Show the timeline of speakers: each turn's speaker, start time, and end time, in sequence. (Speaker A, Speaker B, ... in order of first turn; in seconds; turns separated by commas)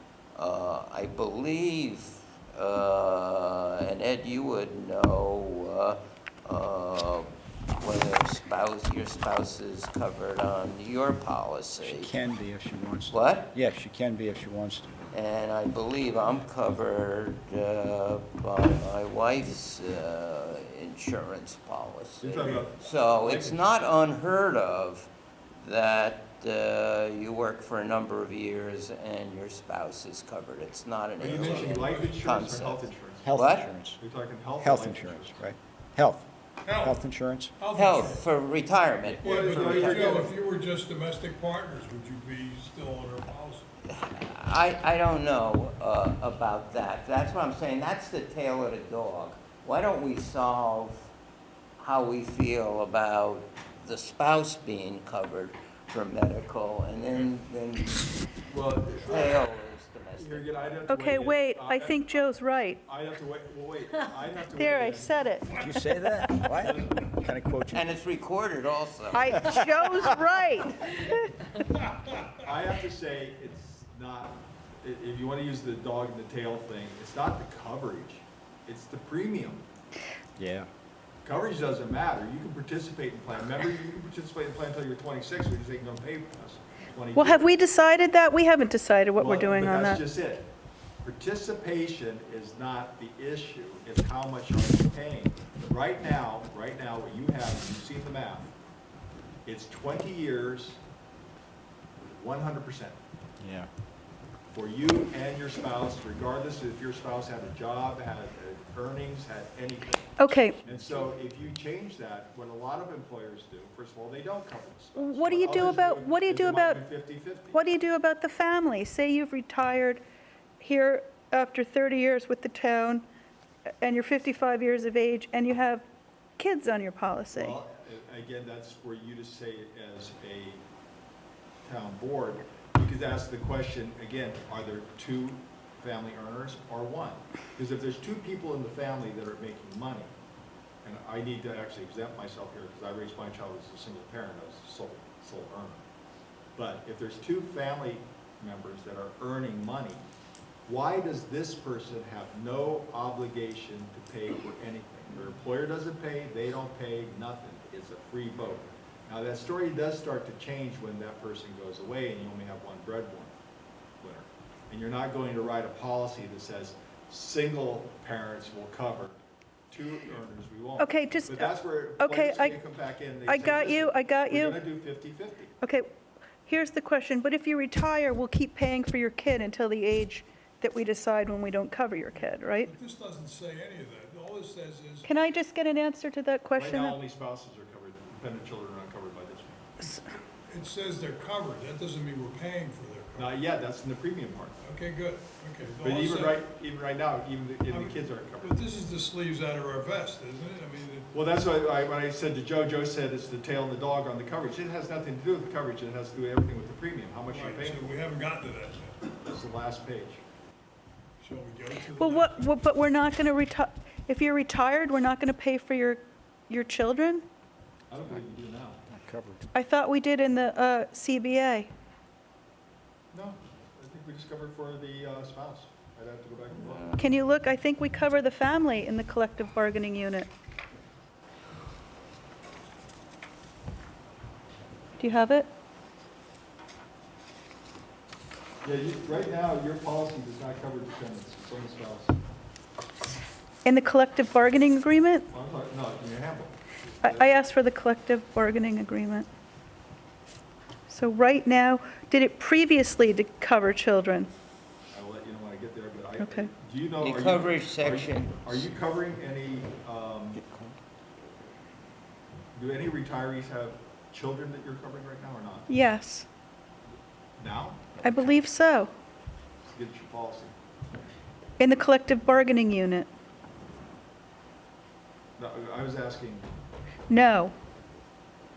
Speaker A: 0.3-12.1, Speaker B: 11.8-15.0, Speaker A: 13.1-13.5, Speaker A: 15.1-33.7, Speaker C: 22.2-23.7, Speaker C: 31.2-33.4, Speaker D: 31.2-32.2, Speaker B: 33.2-34.0, Speaker C: 34.0-35.4, Speaker B: 34.6-37.5, Speaker D: 36.6-37.0, Speaker D: 37.6-38.2, Speaker A: 37.7-40.3, Speaker B: 39.1-39.4, Speaker C: 39.2-40.3, Speaker D: 39.2-43.7, Speaker A: 43.9-51.1, Speaker A: 51.8-58.1, Speaker C: 58.5-59.4, Speaker A: 59.0-60.9, Speaker C: 60.2-62.2, Speaker E: 60.9-62.8, Speaker C: 62.8-65.2, Speaker E: 64.6-65.6, Speaker D: 65.5-65.9, Speaker B: 65.5-67.9, Speaker C: 66.5-67.1, Speaker A: 67.7-69.5, Speaker E: 69.1-70.8, Speaker B: 69.3-70.4, Speaker D: 71.6-72.2, Speaker C: 72.4-79.6, Speaker B: 80.4-80.7, Speaker C: 81.2-87.5, Speaker E: 87.1-90.0, Speaker C: 89.2-90.5, Speaker C: 91.0-98.5, Speaker C: 99.5-100.8, Speaker C: 102.1-103.0, Speaker B: 103.4-103.7, Speaker C: 104.5-117.6, Speaker E: 110.2-110.6, Speaker B: 110.7-111.0, Speaker E: 115.0-116.8, Speaker E: 117.5-120.0, Speaker E: 120.6-123.0, Speaker E: 123.8-125.8, Speaker E: 126.4-127.6, Speaker C: 127.3-130.6, Speaker C: 131.6-140.1, Speaker C: 140.8-145.8, Speaker C: 146.6-150.0, Speaker C: 150.7-163.3, Speaker C: 164.0-169.2, Speaker C: 169.7-175.5, Speaker E: 170.8-172.6, Speaker E: 173.3-174.6, Speaker E: 175.6-175.9, Speaker E: 176.4-182.7, Speaker D: 182.4-185.1, Speaker E: 185.1-187.0, Speaker C: 186.6-189.6, Speaker D: 190.4-193.3, Speaker C: 193.2-194.6, Speaker D: 194.6-196.4, Speaker C: 195.8-198.6, Speaker D: 197.7-201.1, Speaker C: 201.1-208.0, Speaker D: 207.3-209.0, Speaker C: 209.2-210.2, Speaker D: 211.2-212.6, Speaker E: 212.0-217.2, Speaker C: 217.9-218.8, Speaker B: 218.9-219.5, Speaker E: 219.6-221.7, Speaker C: 223.1-226.9, Speaker A: 226.6-227.0, Speaker E: 227.0-230.3, Speaker E: 235.0-235.5, Speaker C: 238.6-242.1, Speaker E: 243.7-245.3, Speaker C: 245.3-247.4, Speaker E: 247.1-249.3, Speaker E: 250.9-254.3, Speaker C: 254.9-260.4, Speaker E: 256.2-256.5, Speaker A: 257.0-258.7, Speaker C: 262.5-265.7, Speaker E: 265.7-266.3, Speaker C: 267.4-268.0, Speaker E: 268.0-268.9, Speaker C: 269.6-270.5, Speaker E: 271.6-273.1, Speaker C: 275.4-276.5, Speaker E: 277.1-277.5